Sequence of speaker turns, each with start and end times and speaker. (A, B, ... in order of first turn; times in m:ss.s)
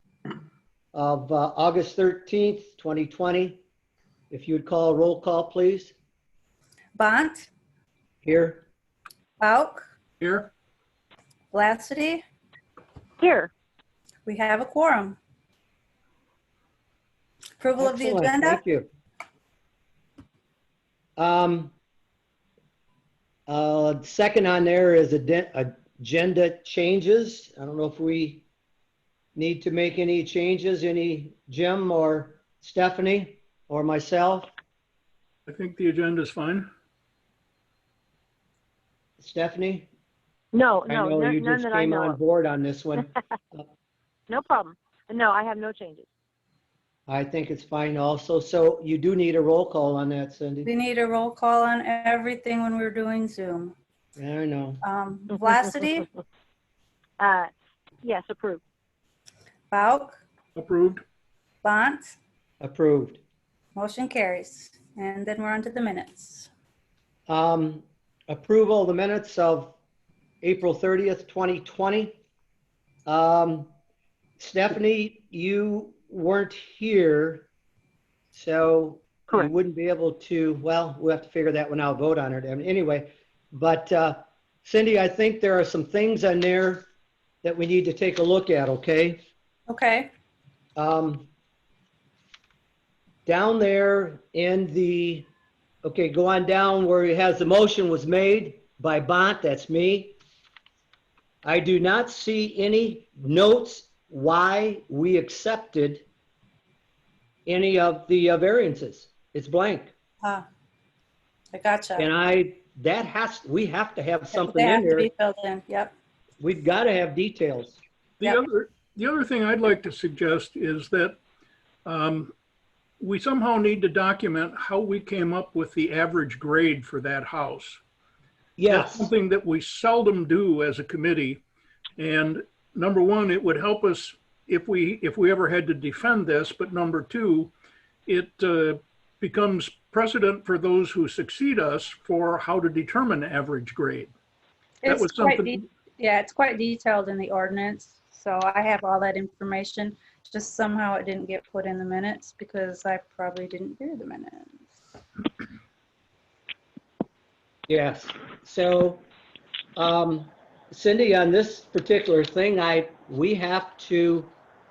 0:00.9-0:03.6 A
0:04.3-0:05.9 A
0:07.0-0:07.5 B
0:08.2-0:08.6 A
0:09.4-0:09.8 B
0:10.2-0:10.5 C
0:11.5-0:12.2 B
0:13.2-0:13.5 D
0:14.2-0:15.2 B
0:17.6-0:18.6 B
0:17.8-0:18.9 A
0:21.2-0:21.7 A
0:23.5-0:28.4 A
0:29.3-0:34.5 A
0:35.4-0:36.7 C
0:39.2-0:39.9 A
0:40.5-0:42.2 D
0:40.9-0:43.7 A
0:44.3-0:46.1 D
0:47.1-0:50.7 A
0:50.7-0:53.8 B
0:54.2-0:54.8 A
0:54.8-0:56.1 B
0:57.2-0:57.5 D
0:58.0-0:58.6 D
0:59.7-1:00.2 B
1:00.6-1:01.0 C
1:01.6-1:02.2 B
1:02.6-1:03.2 A
1:03.8-1:06.5 B
1:07.3-1:09.8 A
1:10.4-1:12.2 A
1:13.1-1:13.7 A
1:14.4-1:17.5 A
1:18.3-1:26.9 A
1:27.4-1:29.2 A
1:29.7-1:30.1 B
1:30.8-1:31.3 A
1:33.2-1:35.3 A
1:35.8-1:40.2 A
1:41.4-1:46.0 A
1:47.4-1:49.9 A
1:51.5-1:52.1 B
1:52.0-1:55.1 A
1:54.3-1:55.9 B
1:56.4-1:57.8 A
1:58.2-2:01.2 C
2:01.8-2:02.3 C
2:03.0-2:07.8 C
2:08.6-2:09.1 A
2:08.7-2:11.4 C
2:12.0-2:17.5 C
2:18.1-2:24.1 C
2:24.8-2:34.6 B
2:24.8-2:25.6 C
2:37.7-2:39.0 A
2:39.8-2:44.3 A